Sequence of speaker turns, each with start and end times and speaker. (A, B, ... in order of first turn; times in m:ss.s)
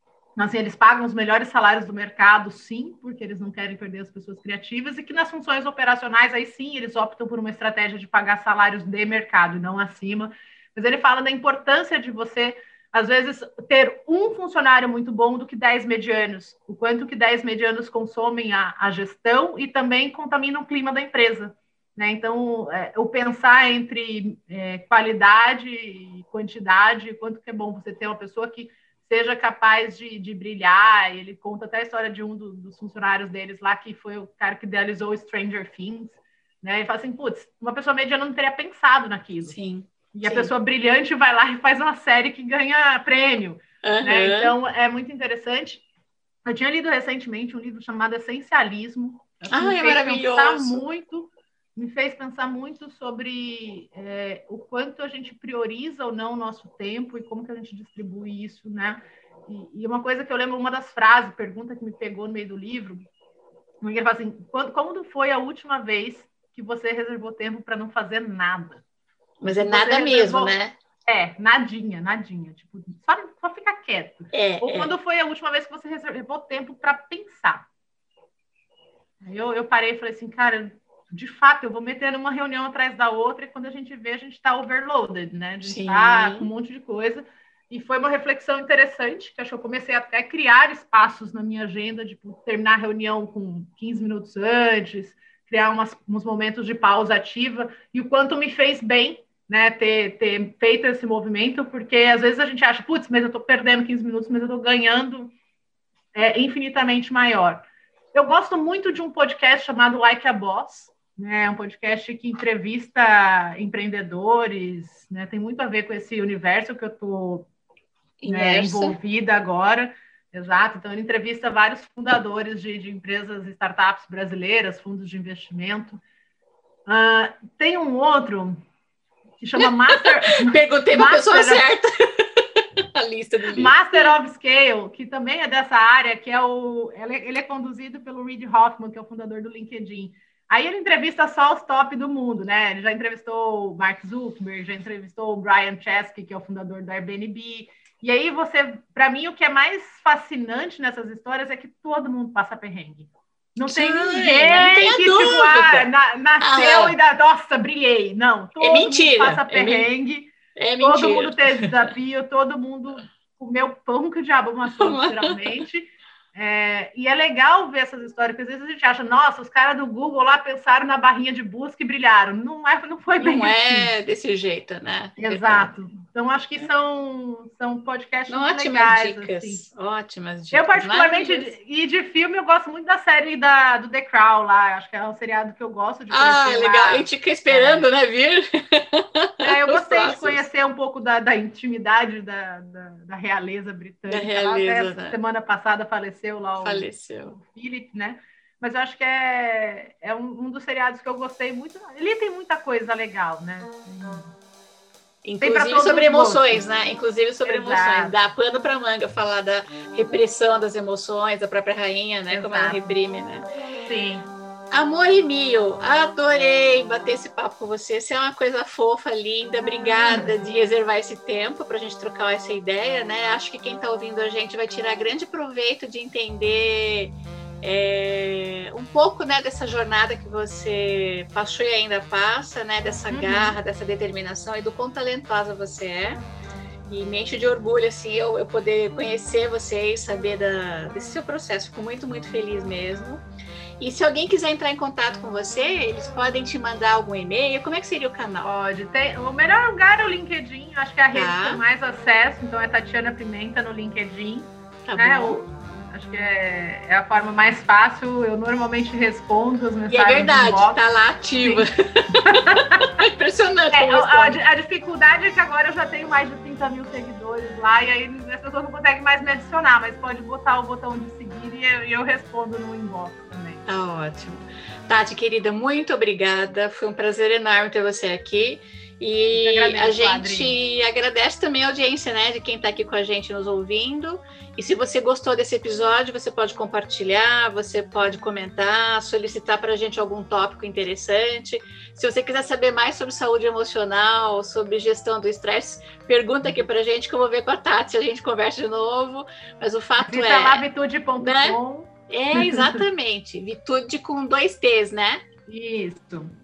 0:00.4-0:39.6 A
0:39.5-0:40.5 B
0:40.1-0:45.8 A
0:43.8-0:44.5 B
0:46.4-1:03.1 A
0:49.5-0:50.8 B
1:03.8-1:08.8 A
1:09.4-1:10.8 B
1:09.4-1:10.6 A
1:11.1-1:17.7 A
1:14.3-1:14.9 B
1:19.2-1:45.3 A
1:25.6-1:26.5 B
1:46.1-1:57.5 A
1:58.2-1:59.0 B
1:58.3-2:06.0 A
2:06.9-2:08.6 A
2:09.4-2:11.6 A
2:09.6-2:14.1 B
2:13.5-2:53.9 A
2:33.7-2:35.9 B
2:36.4-2:37.0 B
2:38.6-2:39.9 B
2:40.6-2:41.7 B
2:44.8-2:45.6 B
2:53.2-2:55.7 B
2:55.2-2:59.7 A
2:58.3-3:01.5 B
3:00.5-3:07.9 A
3:06.1-3:10.4 B
3:09.4-3:24.3 A
3:14.1-3:15.2 B
3:16.6-3:17.4 B
3:25.2-3:33.4 B
3:25.4-3:26.6 A
3:27.4-3:28.2 A
3:32.3-3:33.0 A
3:33.8-3:34.3 A
3:34.7-3:56.2 B
3:40.1-3:40.3 A
3:53.1-3:53.6 A
3:56.9-4:03.2 B
4:03.8-4:08.5 B
4:08.4-4:20.8 A
4:11.1-4:11.6 B
4:14.9-4:15.4 B
4:19.9-4:24.4 B
4:21.4-4:22.9 A
4:23.7-4:33.6 A
4:33.7-5:00.6 B
4:39.3-4:40.6 A
5:00.0-5:02.8 A
5:01.2-5:01.6 B
5:02.1-5:05.2 B
5:05.5-5:06.3 A